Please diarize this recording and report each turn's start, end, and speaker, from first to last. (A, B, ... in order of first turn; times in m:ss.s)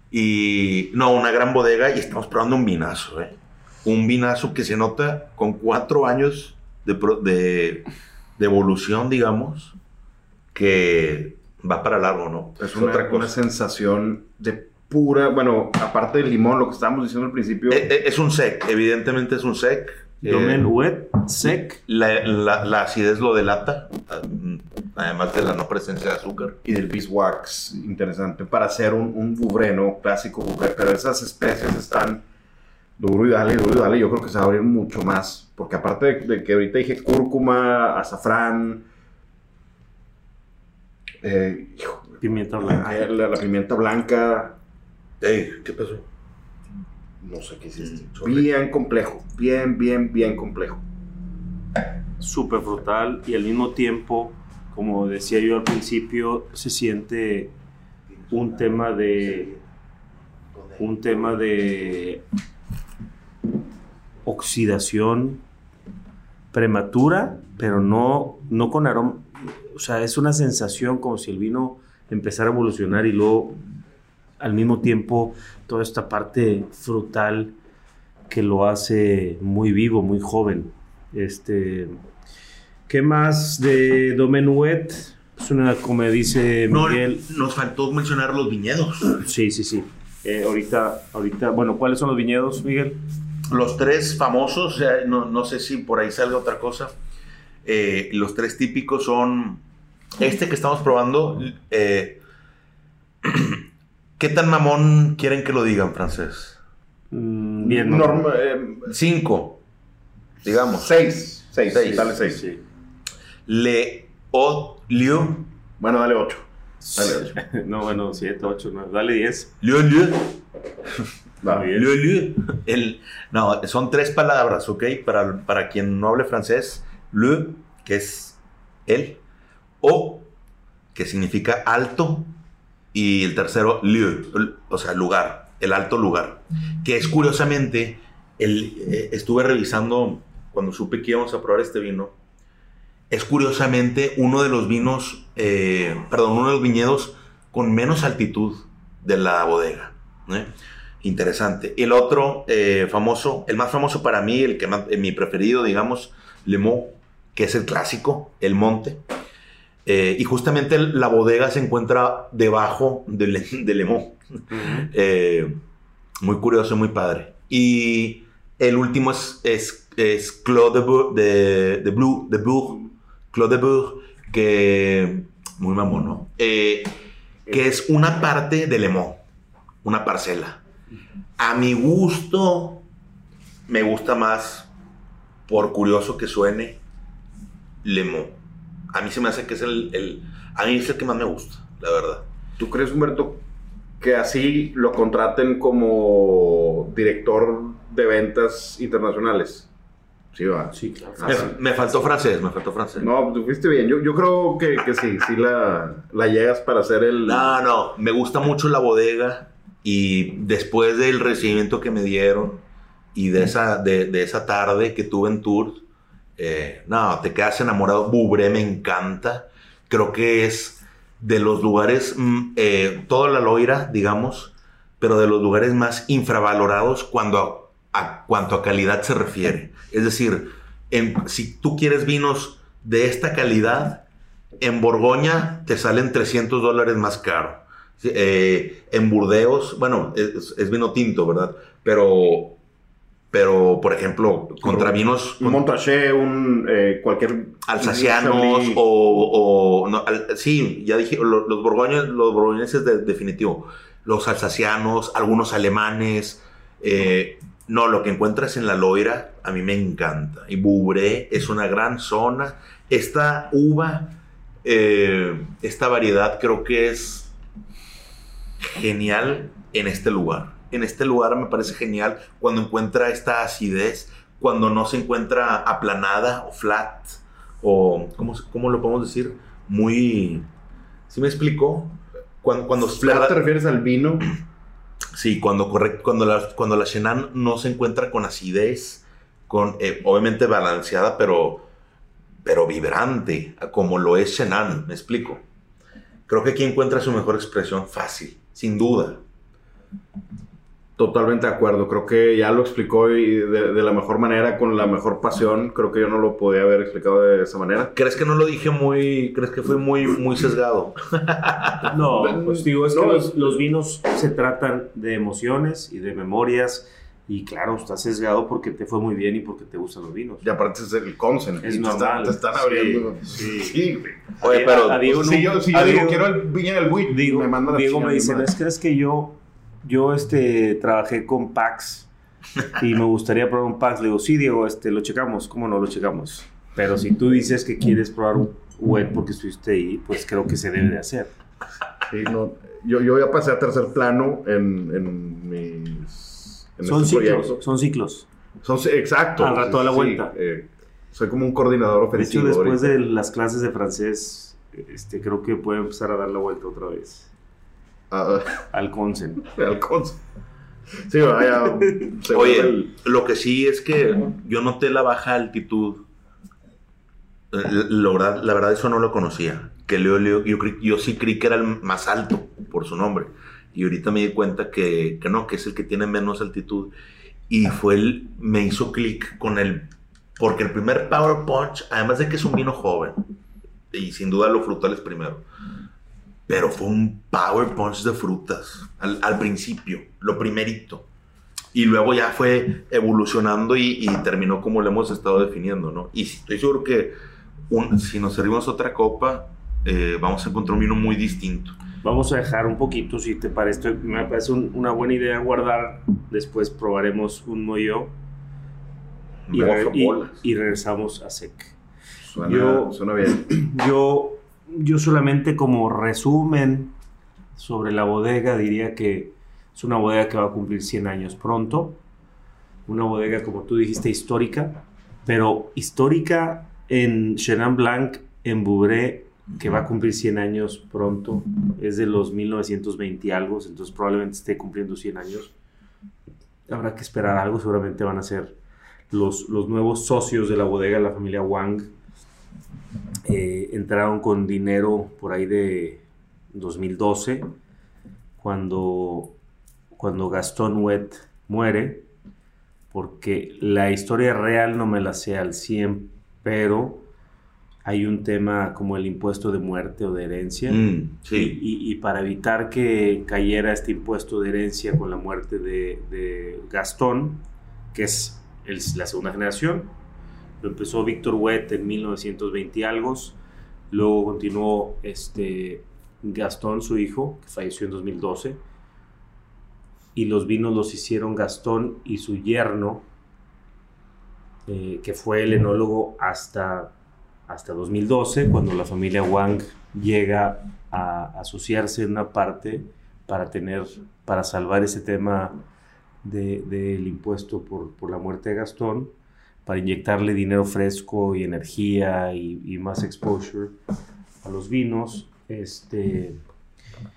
0:00.1-0:07.9 A
0:08.4-0:09.8 A
0:10.5-0:13.3 A
0:12.6-0:17.9 B
0:17.7-0:20.6 A
0:20.2-0:21.8 C
0:21.4-0:26.6 A
0:26.6-0:32.2 B
0:33.0-0:38.9 B
0:41.2-0:44.6 B
0:42.2-0:42.9 C
0:45.2-0:46.1 A
0:47.2-0:50.8 B
0:47.8-0:48.5 A
0:52.2-0:57.5 C
0:58.1-0:59.6 A
0:58.3-0:59.5 C
1:00.6-1:00.8 A
1:00.8-1:02.2 C
1:04.2-1:05.4 C
1:06.5-1:13.6 C
1:14.4-1:17.6 C
1:18.3-1:22.0 C
1:22.9-1:27.2 C
1:26.7-1:29.2 A
1:29.1-1:33.0 C
1:33.5-1:36.9 A
1:37.6-1:39.6 A
1:40.2-1:42.2 A
1:43.2-1:43.6 A
1:44.2-1:46.6 A
1:47.1-1:48.2 C
1:47.6-1:48.9 B
1:48.9-1:49.6 A
1:50.4-1:51.0 A
1:50.5-1:52.4 B
1:51.7-1:52.2 A
1:51.8-1:52.6 C
1:53.5-1:55.5 A
1:55.8-1:57.3 B
1:56.8-1:59.5 C
1:59.6-2:00.4 A
2:01.4-2:01.7 B
2:01.4-2:02.0 C
2:01.7-2:09.2 A
2:09.8-2:10.3 A
2:10.9-2:12.3 A
2:12.9-2:22.2 A
2:23.1-2:39.0 A
2:39.9-2:45.6 A
2:44.5-2:44.9 C
2:46.2-2:52.8 A
2:53.3-2:56.9 A
2:57.5-2:59.2 A
2:59.8-3:00.6 A
3:01.4-3:02.8 A
3:03.7-3:04.7 A
3:05.5-3:06.8 A
3:07.8-3:08.4 A
3:08.9-3:12.2 A
3:12.6-3:13.4 B
3:14.0-3:19.7 B
3:20.3-3:21.5 B
3:20.7-3:21.6 C
3:21.3-3:23.1 A
3:23.0-3:27.6 B
3:27.2-3:32.6 A
3:33.2-3:35.8 A
3:36.4-3:54.0 A
3:54.6-4:02.6 A
4:03.3-4:05.6 A
4:04.6-4:08.8 B
4:07.6-4:27.3 A
4:28.6-4:40.5 A
4:41.1-4:43.4 A
4:42.8-4:44.3 B
4:45.1-4:51.7 A
4:52.4-4:55.4 A
4:56.3-4:59.2 A
5:01.0-5:07.9 B
5:07.9-5:11.9 A
5:11.8-5:20.5 C
5:12.0-5:13.6 B
5:20.4-5:24.3 B
5:21.6-5:23.8 C
5:24.4-5:26.5 C
5:24.4-5:25.1 A
5:25.0-5:28.5 B
5:27.1-5:32.1 C
5:32.7-5:41.3 C
5:42.1-5:47.6 B
5:46.8-5:48.3 C
5:48.6-5:53.0 B
5:49.4-5:50.3 C
5:52.1-5:57.3 C
5:58.1-5:58.7 B
5:58.7-5:59.4 C
5:59.4-6:00.2 B
6:01.0-6:02.9 B
6:02.3-6:06.0 A
6:07.5-6:16.9 A
6:17.5-6:23.2 A
6:23.9-6:25.4 A
6:26.5-6:31.1 A
6:31.7-6:37.2 A
6:37.7-6:41.8 A
6:42.0-6:48.1 C
6:49.5-6:50.4 A
6:49.5-6:51.7 C
6:52.2-6:53.6 B
6:52.4-6:57.0 C
6:57.6-7:02.0 C
7:02.9-7:15.5 C
7:16.7-7:18.6 C
7:19.1-7:21.9 C
7:23.3-7:27.5 C
7:28.4-7:29.4 C
7:30.0-7:32.1 C
7:32.9-7:37.1 C
7:37.8-7:40.8 C
7:40.7-7:41.6 A
7:41.3-7:47.4 C
7:47.9-7:49.9 C
7:50.6-7:53.4 C
7:53.9-7:58.6 C
8:00.2-8:03.0 C
8:04.7-8:06.9 C
8:07.5-8:15.6 C
8:16.2-8:19.1 C
8:19.6-8:23.8 C
8:24.4-8:26.4 C